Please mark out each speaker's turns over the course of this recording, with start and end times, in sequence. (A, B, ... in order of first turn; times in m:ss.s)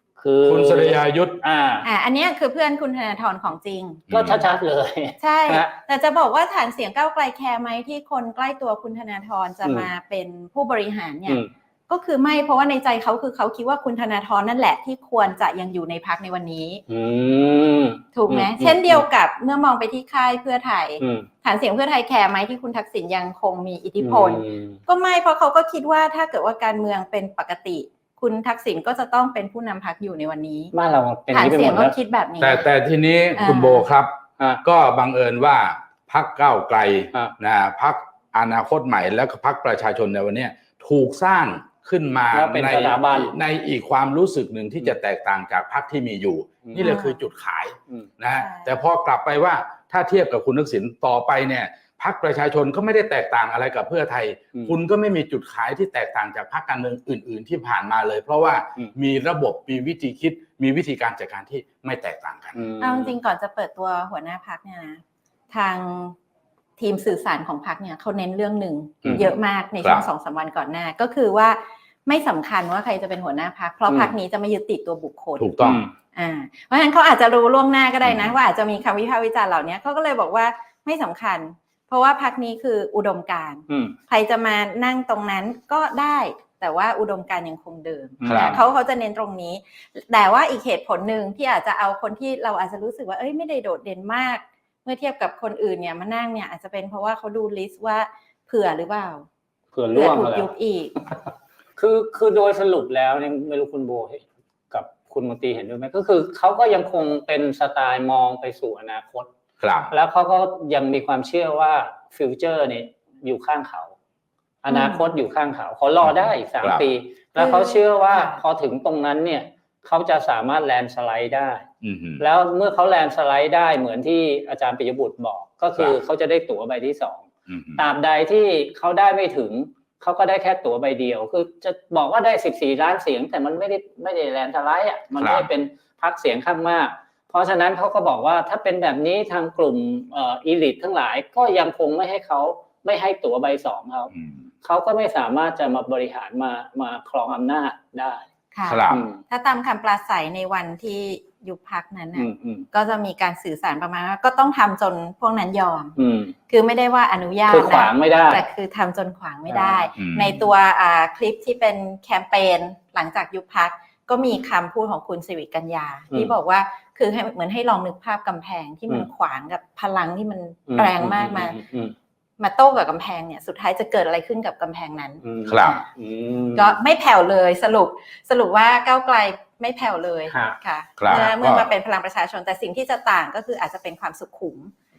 0:00.2-0:01.9 A
0:00.4-0:01.4 B
0:01.8-0:04.1 C
0:04.1-0:04.5 B
0:04.1-0:05.7 A
0:05.2-0:16.8 C
0:09.6-0:09.9 A
0:16.9-0:19.1 A
0:18.2-0:30.7 C
0:21.0-0:21.3 A
0:24.0-0:24.8 A
0:30.7-0:32.0 A
0:31.3-0:32.7 C
0:32.4-1:02.6 B
0:33.4-0:33.9 C
0:42.3-0:43.3 A
0:46.6-0:47.0 A
0:46.8-0:47.2 C
0:48.4-0:48.8 C
1:02.6-1:03.2 A
1:02.8-1:06.2 C
1:06.8-1:15.5 C
1:09.0-1:09.3 A
1:09.8-1:10.1 B
1:13.9-1:14.1 A
1:15.4-1:15.8 B
1:15.6-1:15.9 A
1:16.2-1:39.3 C
1:18.0-1:18.4 B
1:23.7-1:24.0 A
1:28.2-1:28.6 A
1:28.3-1:28.6 B
1:39.7-1:40.5 A
1:40.0-1:41.0 C
1:41.8-1:49.3 A
1:49.6-1:49.9 B
1:49.9-1:53.9 A
1:54.6-2:01.7 A
1:54.7-1:55.1 C
1:56.0-1:56.9 B
1:57.4-1:58.4 C
2:01.8-2:02.2 B
2:02.2-2:07.2 A
2:07.5-2:07.8 B
2:07.8-2:24.1 A
2:15.2-2:15.5 B
2:24.1-2:24.4 B
2:24.6-2:28.3 A
2:28.5-2:36.0 C
2:28.7-2:29.0 B
2:28.9-2:29.2 A
2:32.2-2:32.7 A
2:36.0-2:36.3 A
2:36.5-2:51.6 C
2:37.5-2:38.4 A
2:39.5-2:39.9 A
2:40.0-2:40.5 B
2:50.7-2:52.0 A
2:52.4-2:55.2 C
2:55.2-2:56.8 A
2:55.5-2:55.8 B
2:56.6-3:04.7 C
3:00.3-3:00.6 A
3:01.0-3:01.7 B